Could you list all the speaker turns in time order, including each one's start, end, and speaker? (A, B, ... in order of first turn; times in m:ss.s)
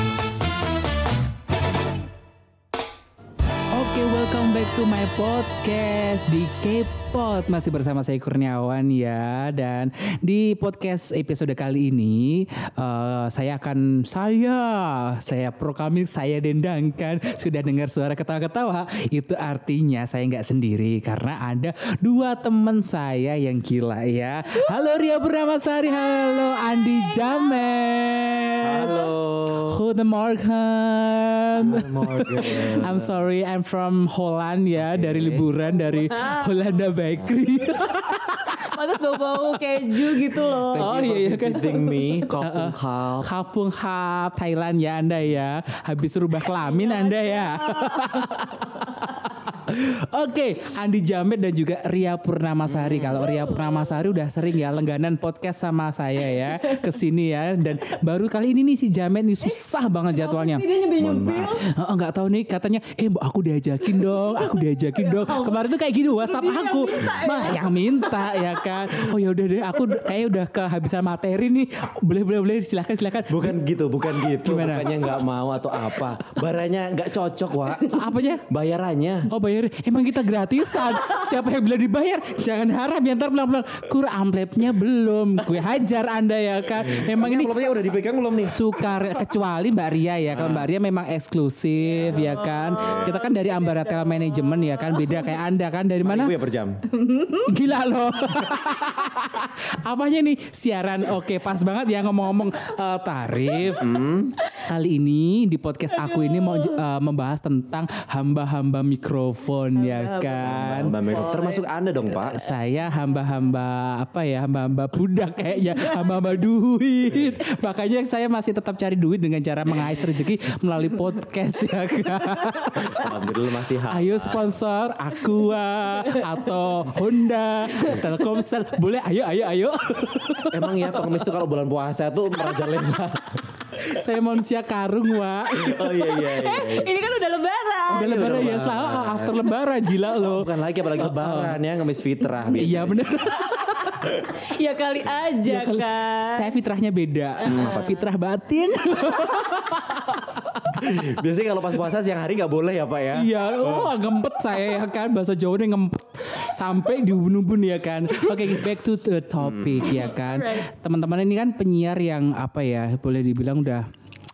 0:03.7-0:29.0 A
0:28.6-0:29.8 B
0:29.6-0:41.8 A
0:31.6-0:33.1 B
0:34.8-0:35.5 B
0:36.0-0:36.5 C
0:38.4-0:41.0 C
0:40.7-0:43.3 B
0:41.6-0:41.9 C
0:42.3-1:00.6 A
0:46.6-0:48.4 C
0:52.7-0:53.3 B
0:53.3-0:53.9 C
1:00.1-1:01.7 C
1:01.0-1:01.6 B
1:01.6-1:13.6 A
1:04.2-1:08.7 C
1:13.3-1:19.3 B
1:14.2-1:15.0 A
1:17.9-1:18.4 A
1:19.3-1:27.6 A
1:26.8-1:28.6 B
1:28.5-1:36.3 A
1:30.3-1:30.7 B
1:32.0-1:33.1 B
1:32.2-1:35.3 C
1:36.0-1:36.8 B
1:36.9-1:37.5 C
1:37.4-1:43.9 A
1:43.8-1:44.3 B
1:44.6-1:51.0 A
1:45.9-1:46.8 C
1:49.8-1:51.6 C
1:50.4-1:52.4 B
1:52.2-2:03.0 A
2:02.8-2:04.4 B
2:03.9-2:11.0 A
2:10.5-2:13.5 B
2:13.8-2:16.3 A
2:15.5-2:17.0 B
2:16.2-2:18.2 C
2:17.9-2:19.4 B
2:17.9-2:21.6 A
2:20.2-2:23.4 B
2:22.5-2:24.0 A
2:23.6-2:26.5 C
2:25.4-2:30.5 A
2:27.4-2:28.0 C
2:27.4-2:28.0 B
2:30.7-2:33.9 B
2:33.1-2:43.9 A
2:39.4-2:40.0 B
2:40.1-2:40.7 C